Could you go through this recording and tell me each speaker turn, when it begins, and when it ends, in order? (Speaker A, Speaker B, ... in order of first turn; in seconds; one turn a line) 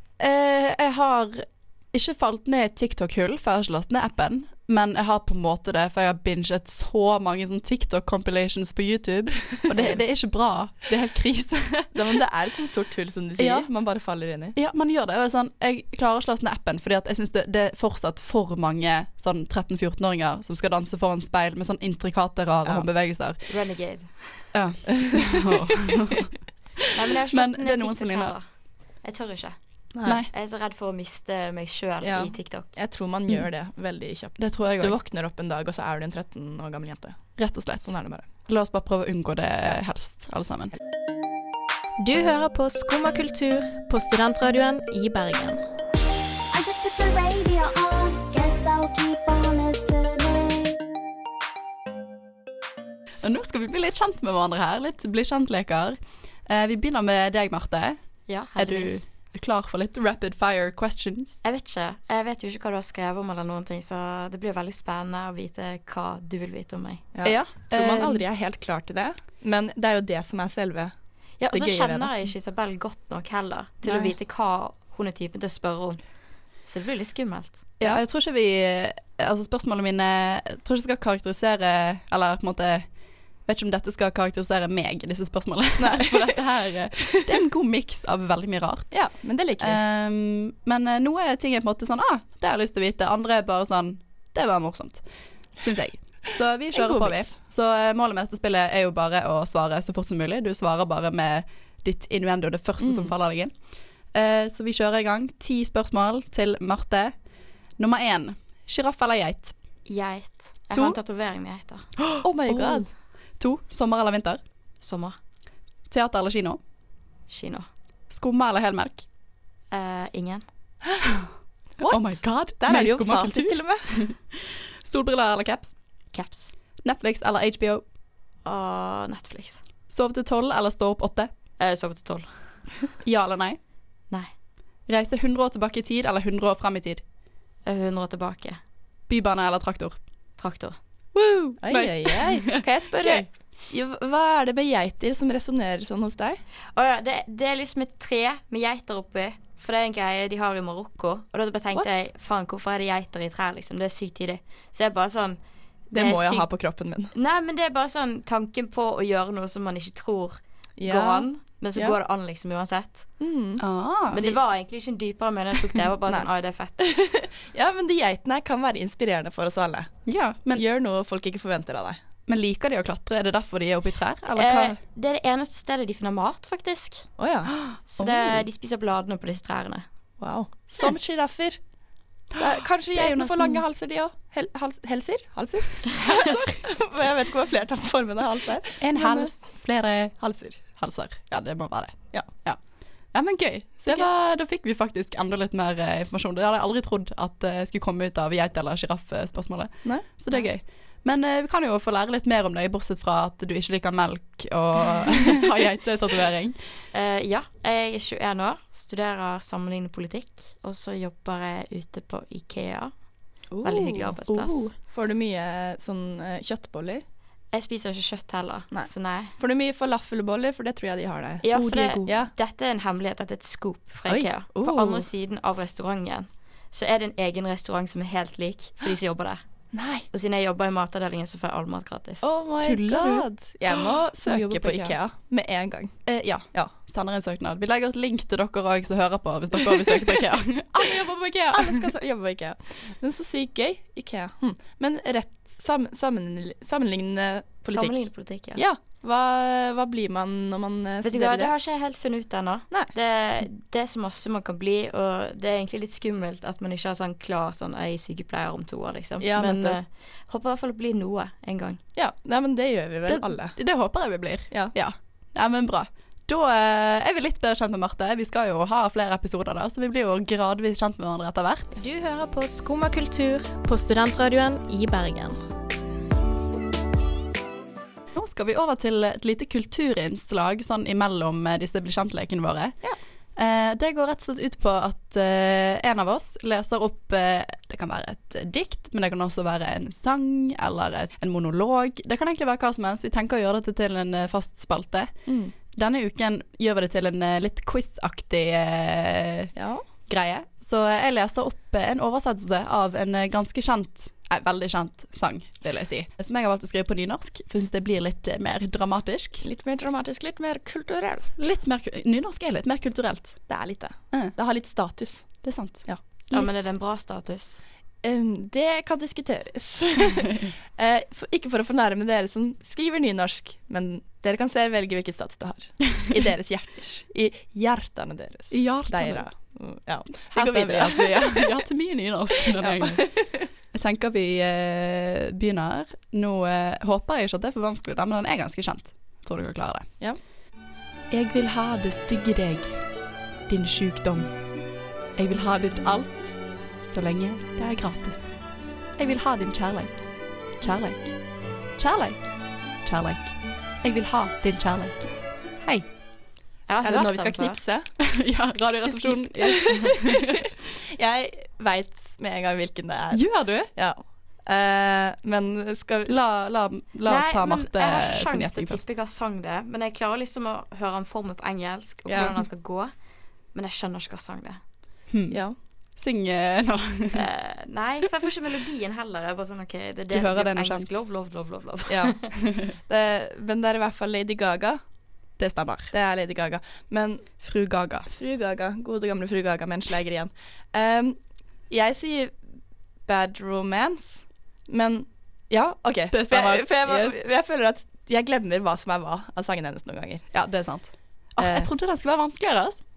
Speaker A: 0.2-11.9
Speaker B: 9.7-10.0
Speaker B: 11.9-14.6
Speaker A: 13.4-13.7
Speaker A: 14.6-23.4
Speaker C: 23.5-24.5
Speaker A: 24.5-26.3
Speaker B: 24.9-25.6
Speaker C: 26.9-28.4
Speaker A: 27.3-28.4
Speaker C: 29.0-29.6
Speaker A: 30.1-30.3
Speaker C: 30.3-32.8
Speaker B: 32.0-37.3
Speaker A: 34.4-35.0
Speaker A: 37.4-40.7
Speaker B: 37.9-38.3
Speaker D: 42.0-45.6
Speaker E: 46.5-50.8
Speaker A: 53.2-58.0
Speaker C: 58.3-59.0
Speaker A: 58.6-61.4
Speaker C: 61.4-67.1
Speaker B: 67.1-70.9
Speaker A: 67.2-68.2
Speaker C: 71.4-76.0
Speaker B: 71.5-72.1
Speaker B: 73.8-74.1
Speaker C: 76.6-77.6
Speaker A: 77.8-82.9
Speaker A: 83.5-89.0
Speaker B: 85.8-86.4
Speaker B: 88.9-89.8
Speaker A: 89.6-95.0
Speaker A: 95.6-103.5
Speaker B: 96.8-97.3
Speaker B: 102.8-103.1
Speaker A: 104.1-107.1
Speaker A: 107.8-109.5
Speaker C: 109.9-111.9
Speaker A: 112.0-112.9
Speaker B: 112.2-112.9
Speaker A: 113.4-114.4
Speaker C: 114.8-115.2
Speaker A: 115.9-116.6
Speaker C: 117.3-117.7
Speaker A: 118.1-119.0
Speaker C: 119.7-120.4
Speaker A: 121.0-121.3
Speaker B: 121.8-123.9
Speaker A: 121.8-125.8
Speaker C: 126.1-126.5
Speaker A: 126.8-127.8
Speaker C: 128.4-129.6
Speaker A: 129.9-131.3
Speaker C: 131.6-132.3
Speaker A: 133.0-133.6
Speaker A: 134.9-137.0
Speaker C: 137.7-138.6
Speaker A: 139.1-140.0
Speaker C: 140.4-140.8
Speaker A: 141.2-143.3
Speaker B: 141.6-146.4
Speaker C: 146.8-155.4
Speaker C: 155.9-156.5
Speaker B: 155.9-157.1
Speaker C: 157.1-163.1
Speaker B: 160.8-162.0
Speaker B: 163.2-163.6
Speaker A: 163.6-164.2
Speaker C: 164.1-166.8
Speaker B: 166.8-169.9
Speaker A: 170.1-170.6
Speaker B: 170.6-172.0
Speaker A: 172.3-174.8
Speaker C: 174.3-177.1
Speaker B: 177.2-177.5
Speaker A: 177.5-178.4
Speaker C: 177.9-179.9
Speaker B: 180.2-181.6
Speaker B: 182.4-189.3
Speaker A: 182.9-183.6
Speaker A: 186.0-186.5
Speaker A: 188.8-190.2
Speaker B: 190.2-190.6
Speaker A: 190.8-192.6
Speaker A: 193.1-206.6
Speaker B: 193.8-194.1
Speaker C: 206.9-212.9
Speaker B: 213.5-214.1
Speaker C: 213.6-214.7
Speaker A: 214.3-214.7
Speaker B: 214.9-217.0
Speaker C: 217.5-219.3
Speaker B: 218.7-221.4
Speaker C: 221.4-229.4
Speaker A: 221.5-222.1
Speaker B: 222.1-222.3
Speaker B: 224.1-225.1
Speaker B: 229.7-230.1
Speaker C: 230.1-232.3
Speaker B: 232.2-235.9
Speaker A: 232.6-233.3
Speaker A: 234.2-235.0
Speaker A: 236.1-241.9
Speaker B: 241.5-251.5
Speaker C: 247.7-248.6
Speaker C: 251.0-261.8
Speaker B: 259.2-259.8
Speaker B: 262.0-263.6
Speaker A: 263.1-271.8
Speaker D: 271.8-275.4
Speaker A: 278.1-282.8
Speaker A: 283.4-295.1
Speaker B: 295.3-295.5
Speaker A: 295.7-299.5
Speaker B: 299.6-299.8
Speaker A: 300.1-309.4
Speaker B: 309.4-311.3
Speaker A: 311.4-313.4
Speaker B: 313.5-315.3
Speaker A: 315.4-316.5
Speaker C: 316.3-317.6
Speaker B: 318.0-331.6
Speaker A: 328.5-329.3
Speaker A: 330.3-333.1
Speaker B: 332.6-333.5
Speaker A: 333.7-339.9
Speaker A: 341.1-342.8
Speaker A: 343.5-344.3
Speaker A: 345.2-348.4
Speaker A: 349.0-350.0
Speaker A: 350.6-351.1
Speaker A: 351.8-352.3
Speaker A: 352.9-355.1
Speaker C: 356.7-357.6
Speaker B: 356.8-357.9
Speaker A: 358.0-360.4
Speaker B: 358.9-360.1
Speaker B: 360.9-366.1
Speaker A: 363.1-363.7
Speaker A: 366.1-368.9
Speaker C: 367.1-372.9
Speaker B: 372.1-372.4
Speaker C: 373.5-374.6
Speaker A: 375.1-375.4
Speaker B: 375.3-375.6
Speaker A: 376.0-377.2
Speaker C: 377.1-382.3
Speaker A: 380.1-380.9
Speaker B: 381.9-382.2
Speaker A: 382.4-382.7
Speaker B: 382.8-384.8
Speaker A: 385.4-385.9
Speaker B: 385.9-387.3
Speaker A: 387.4-388.1
Speaker B: 388.1-391.2
Speaker B: 391.7-392.4
Speaker B: 393.1-400.2
Speaker A: 396.1-397.2
Speaker A: 400.3-402.8
Speaker B: 401.4-401.7